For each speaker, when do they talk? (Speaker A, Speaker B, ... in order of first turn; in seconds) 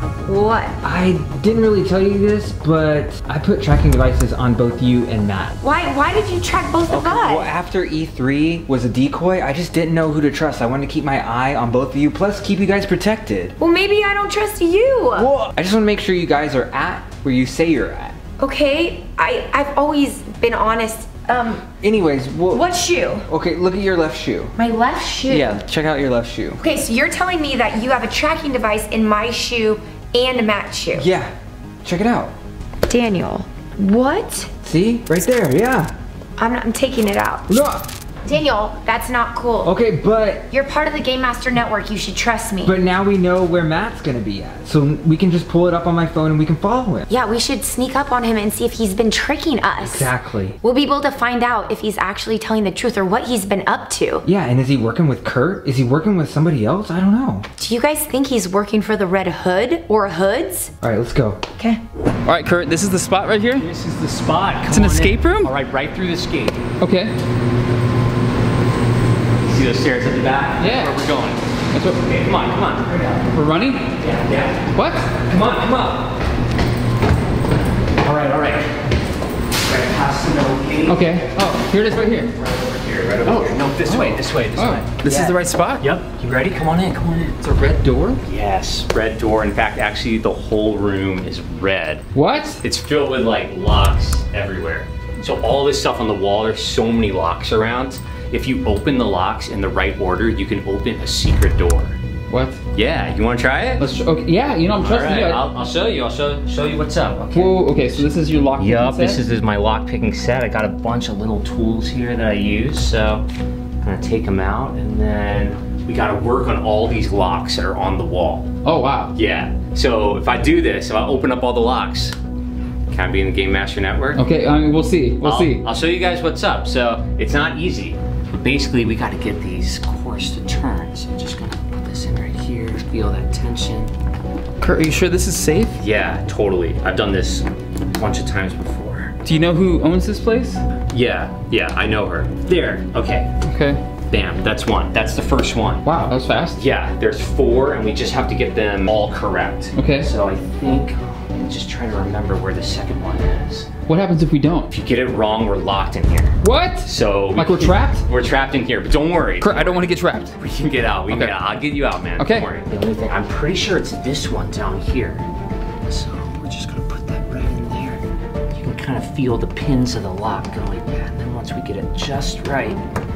Speaker A: 0.2-0.8, 5.6-7.5, 13.6-15.3, 18.4-21.7, 22.5-23.3, 24.6-25.5, 26.6-31.1, 32.9-34.5, 36.4-37.6, 38.2-39.7, 40.5-42.8, 47.1-54.2, 57.6-60.7
Speaker B: 0.8-5.5, 6.9-13.6, 15.1-18.1, 21.7-22.7, 23.3-24.5, 25.2-26.6, 30.9-31.3, 31.8-32.3, 34.6-35.9, 37.5-37.9, 39.6-40.5, 42.6-47.1, 49.8-50.6, 54.2-57.5, 60.8-61.4
Speaker C: 62.2-63.7, 64.7-65.5, 66.8-67.1, 70.6-71.0, 71.7-72.0, 73.3-73.9, 74.7-75.1, 80.9-82.3, 83.2-85.9, 87.4-88.2, 92.1-92.6, 102.3-102.6, 103.8-105.4, 107.3-109.2, 118.6-119.1, 124.1-125.6, 134.6-135.8, 139.2-140.6, 143.4-143.8, 145.8-146.6, 149.7-150.1, 153.9-154.7, 156.4-158.0, 159.4-160.3, 161.1-161.3, 162.2-162.5
Speaker D: 63.5-66.6, 69.4-71.4, 72.0-73.3, 74.0-74.7, 75.2-76.1, 78.0-78.7, 79.6-81.2, 82.3-87.4, 88.2-102.0, 102.7-103.9, 104.7-113.2, 113.8-118.5, 119.1-122.2, 122.9-124.2, 125.2-133.9, 135.8-139.1, 140.9-143.3, 144.1-145.9, 146.5-153.7, 154.7-165.2, 165.9-172.8